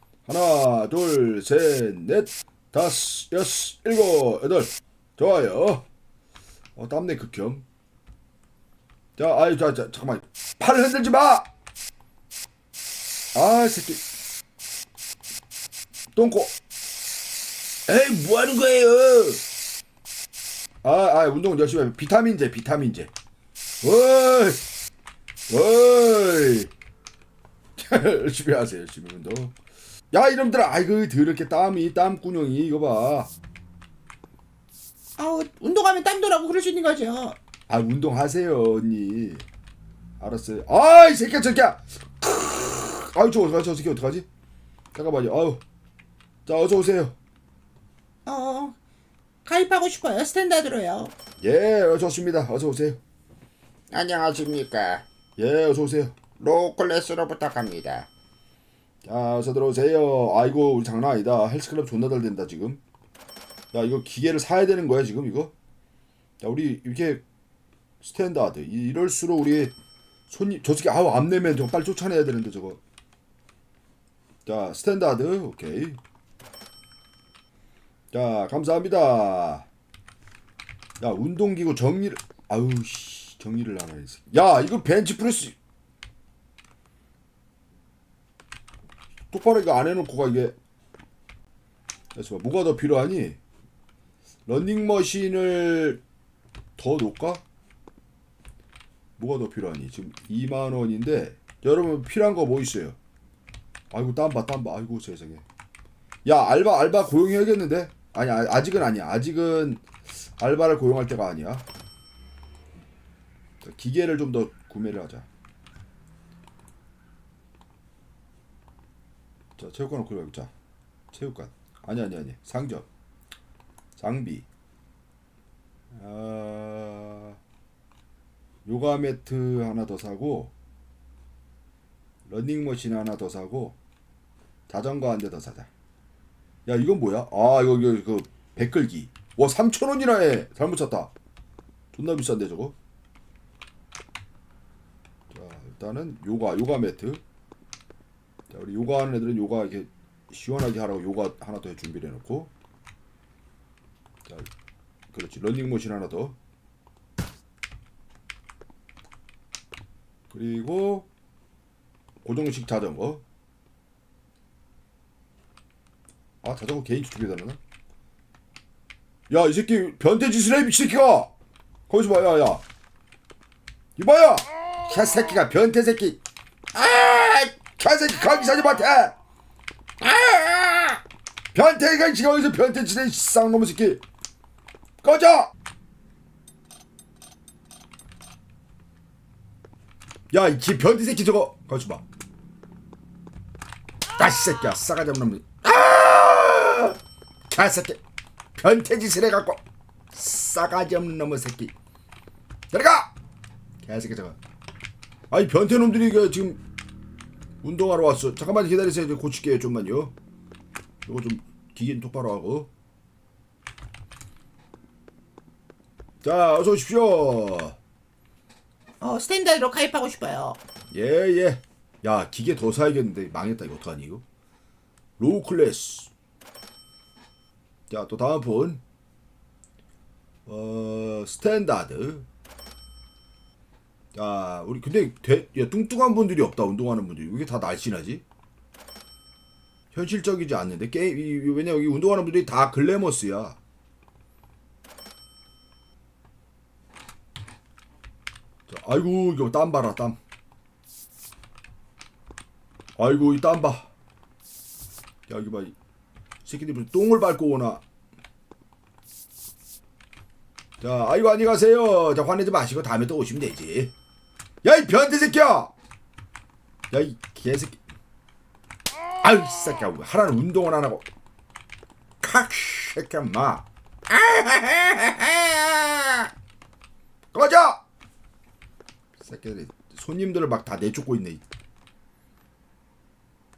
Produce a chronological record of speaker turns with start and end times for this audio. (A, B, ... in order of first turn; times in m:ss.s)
0:00.3-0:05.8 A
0:06.8-0:07.6 A
0:09.2-0:11.5 A
0:13.3-0:14.0 A
0:16.1-0:16.5 A
0:17.9-0:19.4 A
0:20.8-0:23.1 A
0:23.8-0:24.6 A
0:25.5-0:26.7 A
0:27.8-0:29.5 A
0:30.1-0:33.3 A
0:35.2-0:37.4 B
0:37.7-0:39.4 A
0:40.2-0:44.3 A
0:44.9-0:45.6 A
0:46.4-0:47.2 A
0:48.2-0:48.8 B
0:49.4-0:51.1 B
0:51.4-0:53.0 A
0:53.9-0:55.0 B
0:55.4-0:56.4 A
0:56.4-0:58.1 B
0:59.0-1:02.8 A
1:03.7-1:05.5 A
1:06.4-1:07.2 A
1:08.0-1:09.7 A
1:10.3-1:12.8 A
1:14.4-1:16.0 A
1:18.1-1:19.7 A
1:21.0-1:25.6 A
1:29.3-1:30.5 A
1:32.1-1:33.4 A
1:34.5-1:36.0 A
1:36.8-1:37.4 A
1:39.2-1:43.0 A
1:43.9-1:45.4 A
1:46.2-1:49.8 A
1:50.4-1:51.6 A
1:53.6-1:55.3 A
1:59.6-2:00.5 A
2:01.1-2:02.9 A
2:04.0-2:04.5 A
2:05.9-2:07.4 A
2:08.6-2:10.5 A
2:12.3-2:13.8 A
2:14.7-2:15.7 A
2:16.6-2:21.1 A
2:21.9-2:22.7 A
2:25.3-2:27.2 A
2:28.5-2:32.5 A
2:35.1-2:36.4 A
2:40.3-2:41.1 A
2:42.2-2:43.2 A
2:46.4-2:47.6 A
2:49.3-2:51.3 A
2:51.9-2:52.6 A
2:54.0-2:56.2 A
2:56.7-2:59.2 A
3:00.0-3:01.0 A
3:01.5-3:04.0 A
3:05.0-3:05.5 A
3:10.3-3:12.0 A
3:14.2-3:17.0 A
3:17.5-3:18.0 A
3:18.6-3:19.6 A
3:20.1-3:21.7 A
3:22.7-3:23.1 A
3:23.8-3:24.4 A
3:25.3-3:26.6 A
3:27.6-3:30.1 A
3:31.0-3:32.7 A
3:36.2-3:37.8 A
3:39.0-3:40.6 B
3:40.9-3:44.2 A
3:45.2-3:46.1 A
3:47.9-3:48.8 A
3:50.4-3:52.2 A
3:54.1-3:58.2 A
3:59.9-4:03.6 A
4:08.7-4:10.2 A
4:13.0-4:13.9 A
4:15.3-4:15.7 A
4:16.4-4:17.8 A
4:20.8-4:23.9 A
4:24.6-4:25.7 A
4:26.9-4:27.8 A
4:29.2-4:31.0 A
4:32.2-4:36.3 A
4:37.3-4:37.8 A
4:39.2-4:41.4 A